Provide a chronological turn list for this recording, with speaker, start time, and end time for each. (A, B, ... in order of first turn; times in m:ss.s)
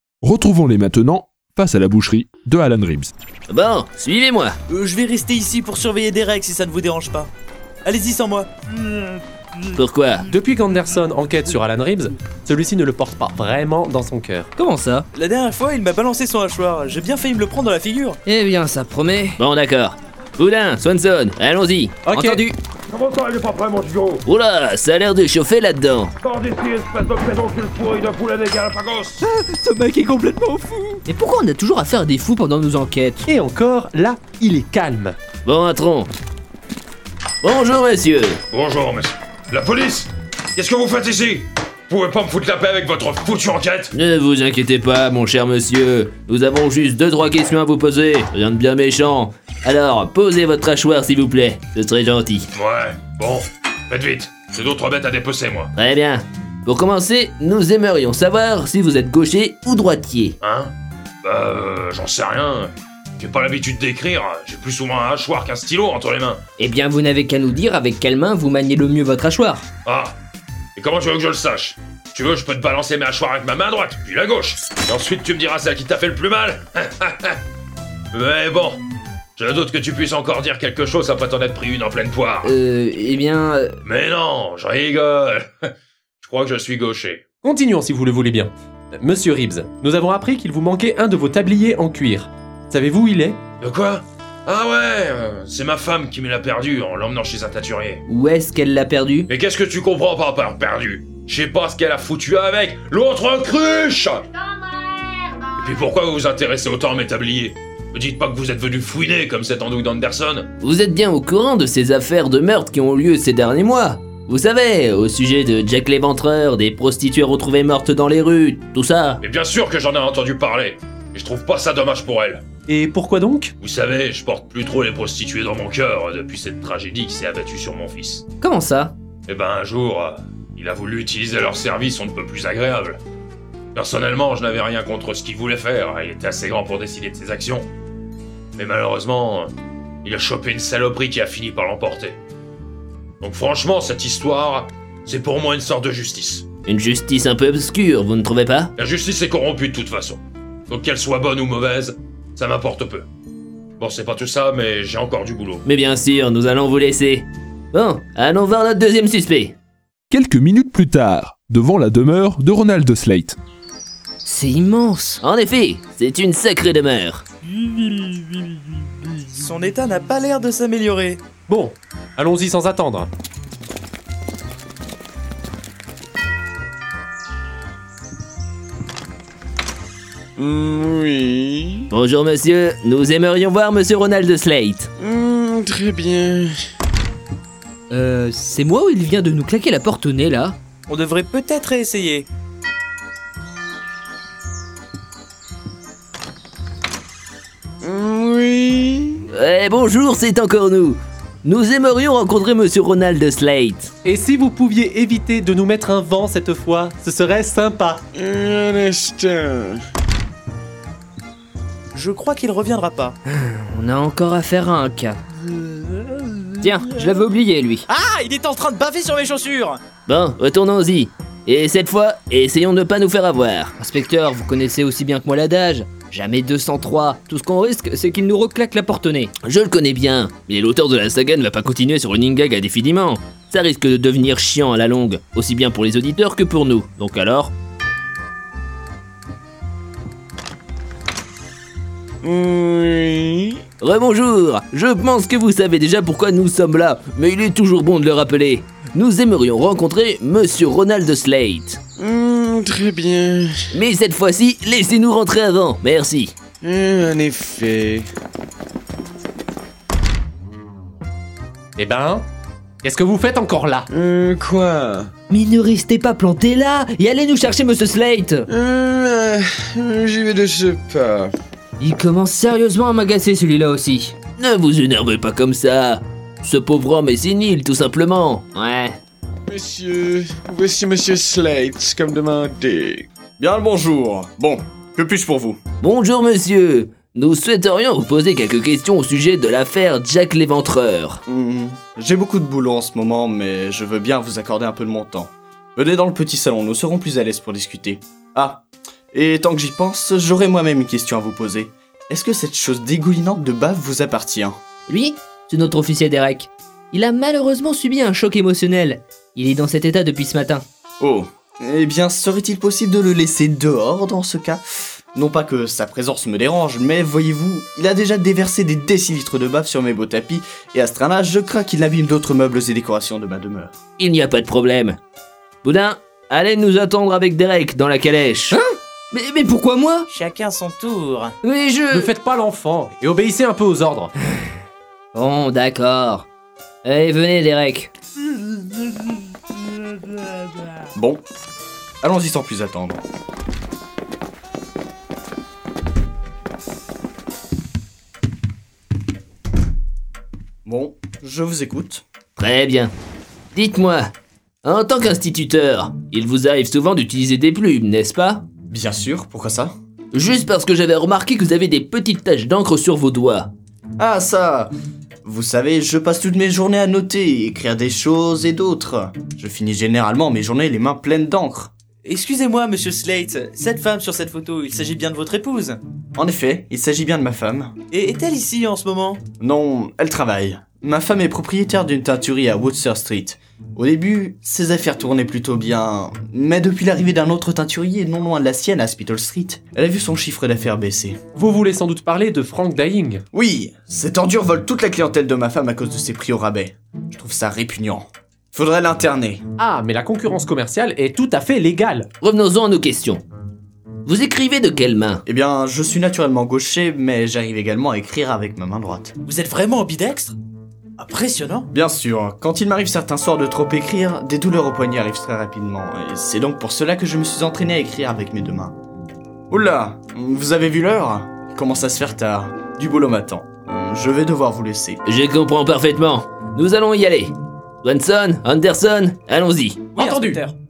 0:00.2-0:03.1 A
0:03.5-0:04.6 B
0:04.7-0:07.3 C
0:07.8-0:08.5 C
0:09.8-0:10.3 B
0:10.3-0:14.5 D
0:14.6-0:15.1 E
0:15.1-0:18.2 C
0:18.3-0:19.4 E
0:19.4-0:22.0 B
0:22.1-0:22.4 D
0:22.1-0:22.6 E
0:22.9-0:24.2 F
0:24.3-0:26.1 B
0:26.2-0:29.3 F
0:29.3-0:33.3 E
0:33.3-0:35.2 D
0:35.4-0:36.1 B
0:37.4-0:38.4 B
0:38.5-0:43.9 F
0:43.9-0:52.5 B
0:52.5-0:55.7 F
0:55.8-1:00.4 B
1:00.4-1:00.7 F
1:01.2-1:06.4 F
1:06.6-1:09.6 E
1:09.8-1:10.2 F
1:10.8-1:17.4 F
1:18.1-1:18.8 F
1:19.4-1:22.5 F
1:22.4-1:23.8 E
1:23.8-1:25.7 F
1:26.2-1:27.2 F
1:27.4-1:33.4 D
1:33.6-1:38.0 F
1:38.1-1:39.3 E
1:39.3-1:44.3 F
1:45.5-1:50.5 F
1:50.6-1:59.2 B
1:59.2-2:02.4 F
2:02.7-2:03.5 D
2:03.6-2:08.2 F
2:08.4-2:08.9 E
2:09.3-2:13.0 F
2:13.8-2:17.7 F
2:18.6-2:19.5 F
2:20.0-2:22.2 F
2:23.2-2:26.5 F
2:26.7-2:28.7 B
2:28.8-2:33.1 F
2:33.8-2:35.6 F
2:35.6-2:39.6 B
2:40.1-2:43.4 A
2:44.2-2:45.2 E
2:45.2-2:47.2 B
2:49.3-2:51.2 C
2:51.5-2:53.1 D
3:00.4-3:01.9 G
3:01.9-3:04.9 B
3:05.0-3:06.5 G
3:07.9-3:10.6 E
3:10.9-3:12.3 C
3:17.8-3:19.2 G
3:19.3-3:23.9 B
3:24.0-3:28.0 D
3:28.1-3:29.8 G
3:31.9-3:33.2 C
3:33.3-3:35.2 E
3:36.6-3:37.9 E
3:37.9-3:39.8 C
3:40.1-3:43.8 B
3:43.8-3:49.3 E
3:49.4-3:57.5 B
4:02.2-4:03.6 G
4:03.8-4:11.8 B
4:12.0-4:13.6 G
4:13.7-4:16.3 B
4:16.6-4:18.1 G
4:21.8-4:22.2 D
4:22.8-4:23.9 D
4:23.9-4:25.1 G
4:25.3-4:28.5 E
4:28.5-4:31.3 G
4:31.8-4:34.2 E
4:34.4-4:39.0 B
4:39.5-4:43.1 G
4:43.4-4:45.6 H
4:45.8-4:51.2 B
4:51.3-5:04.6 H
5:04.9-5:10.6 E
5:11.0-5:14.6 H
5:15.1-5:23.8 H
5:24.0-5:25.0 B
5:25.6-5:28.6 B
5:28.5-5:30.1 E
5:30.1-5:31.4 C
5:31.4-5:32.1 B
5:31.9-5:34.1 D
5:35.1-5:36.3 E
5:36.8-5:37.9 E
5:41.0-5:41.2 H
5:42.0-5:43.0 H
5:50.6-5:52.0 H
5:52.4-5:52.9 B
5:53.5-5:54.0 B
5:54.6-5:58.4 B
5:58.7-5:59.7 H
6:00.1-6:03.5 B
6:04.0-6:04.7 H
6:05.2-6:11.7 H
6:12.0-6:15.8 C
6:16.2-6:17.8 H
6:17.9-6:19.2 C
6:19.4-6:31.2 H
6:31.4-6:33.2 D
6:33.3-6:39.4 H
6:39.6-6:42.1 D
6:42.2-6:43.2 B
6:44.0-6:45.2 B
6:45.3-6:49.2 H
6:49.2-6:50.4 C
6:51.0-6:51.7 C
6:51.7-6:58.8 H
6:59.5-7:05.0 H
7:05.1-7:09.9 B
7:10.0-7:10.6 C
7:10.0-7:10.4 D